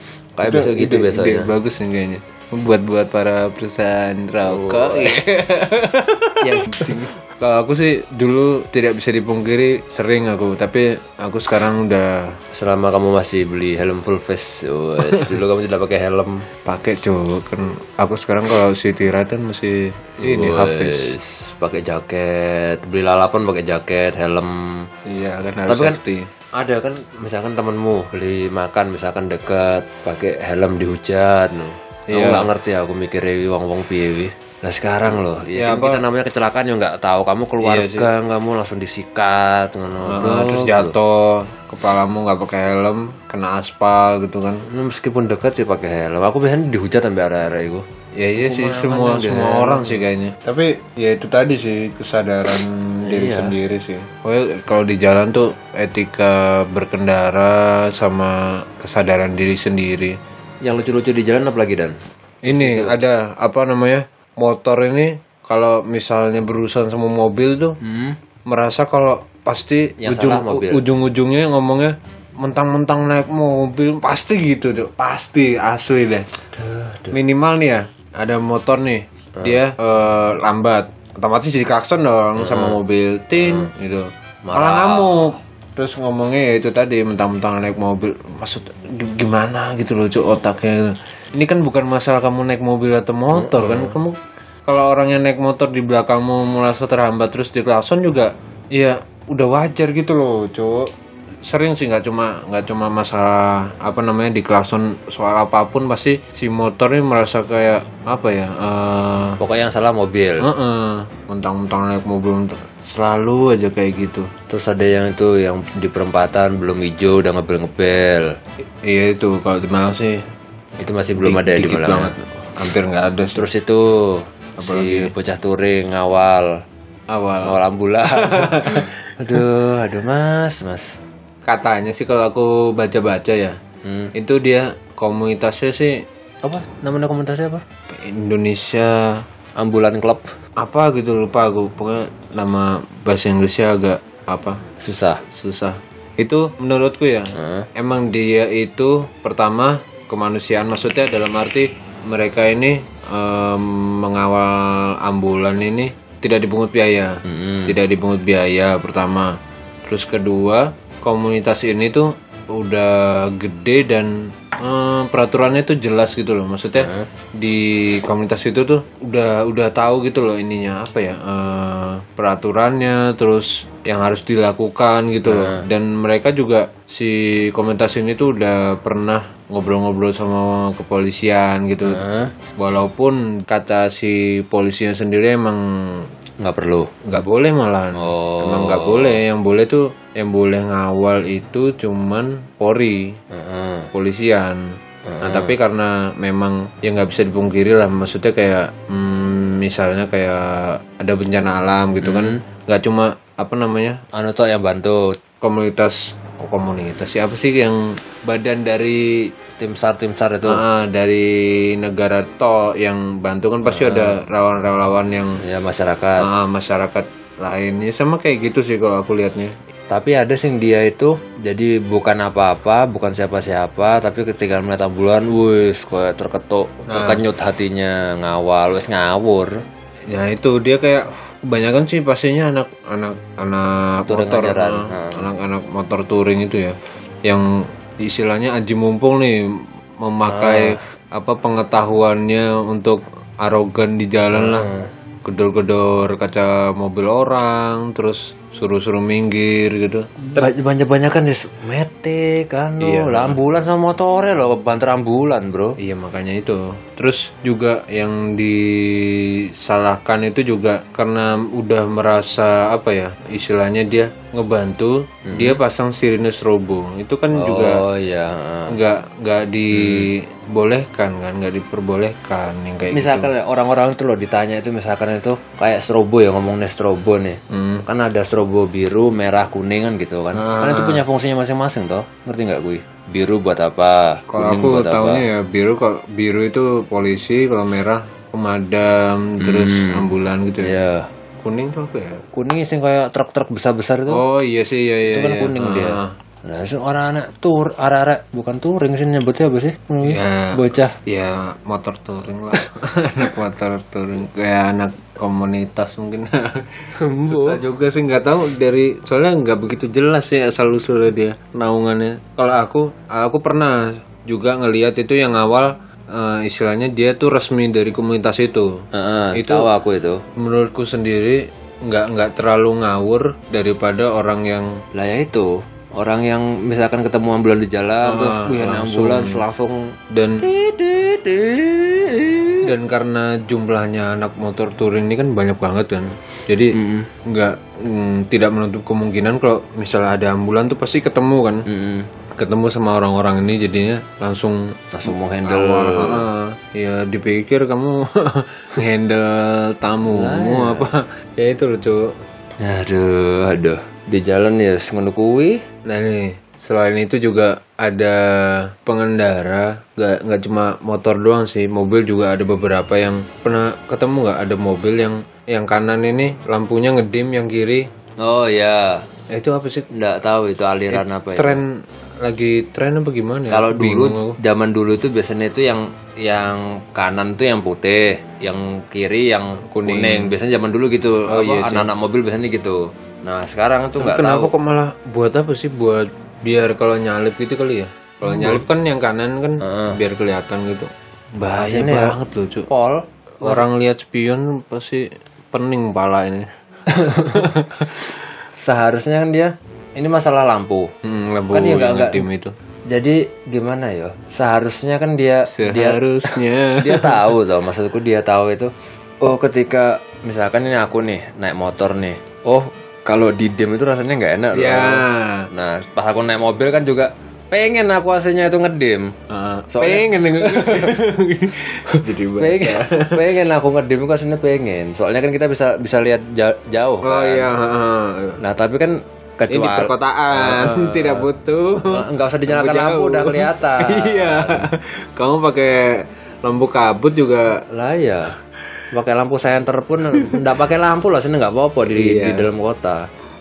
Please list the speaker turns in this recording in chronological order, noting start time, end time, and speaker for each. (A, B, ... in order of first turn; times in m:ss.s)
0:00.4-0:01.5 A
0:00.4-0:12.4 B
0:04.4-0:05.2 A
0:06.4-0:07.1 A
0:12.5-0:16.4 A
0:15.0-0:15.3 B
0:16.6-0:21.1 B
0:20.2-0:24.9 A
0:25.1-0:26.3 B
0:25.7-0:26.0 A
0:26.6-0:40.9 A
0:32.1-0:32.5 B
0:35.5-0:36.0 B
0:37.6-0:38.1 B
0:40.0-0:44.6 B
0:44.7-0:47.8 A
0:48.2-1:00.2 B
0:48.4-0:50.0 A
0:53.1-0:53.5 A
1:00.6-1:03.0 A
1:02.4-1:07.8 B
1:07.8-1:08.2 A
1:08.4-1:16.3 B
1:10.0-1:10.8 A
1:16.5-1:17.2 A
1:17.1-1:40.9 B
1:22.4-1:22.8 A
1:23.4-1:23.7 A
1:24.4-1:25.3 A
1:33.3-1:34.0 A
1:41.4-1:49.4 B
1:49.4-1:50.5 A
1:50.4-1:54.3 B
1:54.5-1:58.3 A
1:58.8-2:00.2 B
2:00.8-2:02.1 A
2:01.2-2:03.4 B
2:03.4-2:06.5 A
2:04.6-2:05.1 B
2:07.1-2:09.4 B
2:07.4-2:11.0 A
2:11.4-2:13.6 B
2:13.8-2:14.1 A
2:14.1-2:16.0 B
2:16.4-2:17.6 A
2:17.9-2:19.2 B
2:19.6-2:20.2 A
2:20.6-2:24.6 B
2:24.8-2:25.2 A
2:25.3-3:02.0 B
2:27.4-2:27.7 A
2:37.2-2:37.8 A
2:46.8-2:47.1 A
2:55.3-2:55.6 A
3:01.8-3:02.3 A
3:02.6-3:06.1 B
3:06.4-3:06.9 A
3:07.0-3:13.2 B
3:07.9-3:09.2 A
3:13.3-3:13.9 A
3:13.9-3:24.0 B
3:15.1-3:15.5 A
3:22.0-3:22.4 A
3:24.1-3:25.2 A
3:25.4-3:29.3 B
3:29.6-3:30.6 A
3:30.4-3:35.4 B
3:33.7-3:34.2 A
3:35.4-3:36.3 A
3:36.2-3:39.6 B
3:39.9-3:49.5 A
3:46.9-3:47.2 B
3:50.1-4:04.7 B
3:54.1-3:55.3 A
4:00.2-4:00.8 A
4:04.3-4:04.9 A
4:05.2-4:10.4 B
4:10.3-4:15.8 A
4:12.8-4:13.4 B
4:15.8-4:27.8 B
4:25.2-4:25.6 A
4:27.3-4:28.8 A
4:28.7-4:33.3 B
4:29.7-4:30.1 A
4:32.9-4:45.2 A
4:37.5-4:37.8 B
4:40.4-4:41.0 B
4:44.3-4:50.7 B
4:49.4-4:50.1 A
4:50.6-4:51.1 A
4:51.4-4:52.2 B
4:52.3-4:54.2 A
4:54.1-4:56.2 B
4:55.1-5:01.0 A
5:00.0-5:18.8 B
5:07.0-5:07.6 A
5:18.9-5:20.2 A
5:19.4-5:19.7 B
5:20.4-5:24.8 B
5:24.9-5:32.7 A
5:28.0-5:29.4 B
5:30.1-5:30.5 B
5:32.6-5:41.6 B
5:36.7-5:37.1 A
5:41.7-5:42.1 A
5:42.4-5:52.1 B
5:44.9-5:46.2 A
5:50.1-5:50.9 A
5:52.6-5:55.6 A
5:55.8-6:07.9 B
6:08.2-6:09.0 A
6:09.3-6:09.9 B
6:09.9-6:11.6 A
6:10.9-6:14.4 B
6:13.5-6:24.5 A
6:19.7-6:20.4 B
6:21.3-6:21.9 B
6:24.0-6:32.7 B
6:28.2-6:28.6 A
6:29.6-6:30.0 A
6:31.5-6:32.2 A
6:32.7-6:33.6 A
6:33.4-6:36.5 B
6:36.9-6:37.5 A
6:37.1-6:38.1 B
6:38.6-6:40.9 A
6:41.0-6:42.5 B
6:41.5-6:42.2 A
6:42.9-6:48.7 A
6:45.5-6:47.3 B
6:49.2-6:59.1 A
6:54.5-6:55.5 B
6:59.3-7:03.2 B
6:59.7-7:00.9 A
7:02.4-7:07.5 A
7:07.0-7:08.4 B
7:08.4-7:11.3 A
7:09.5-7:17.6 B
7:11.9-7:14.7 A
7:17.7-7:18.3 A
7:18.9-7:23.0 A
7:20.2-7:20.4 B
7:21.9-7:22.5 B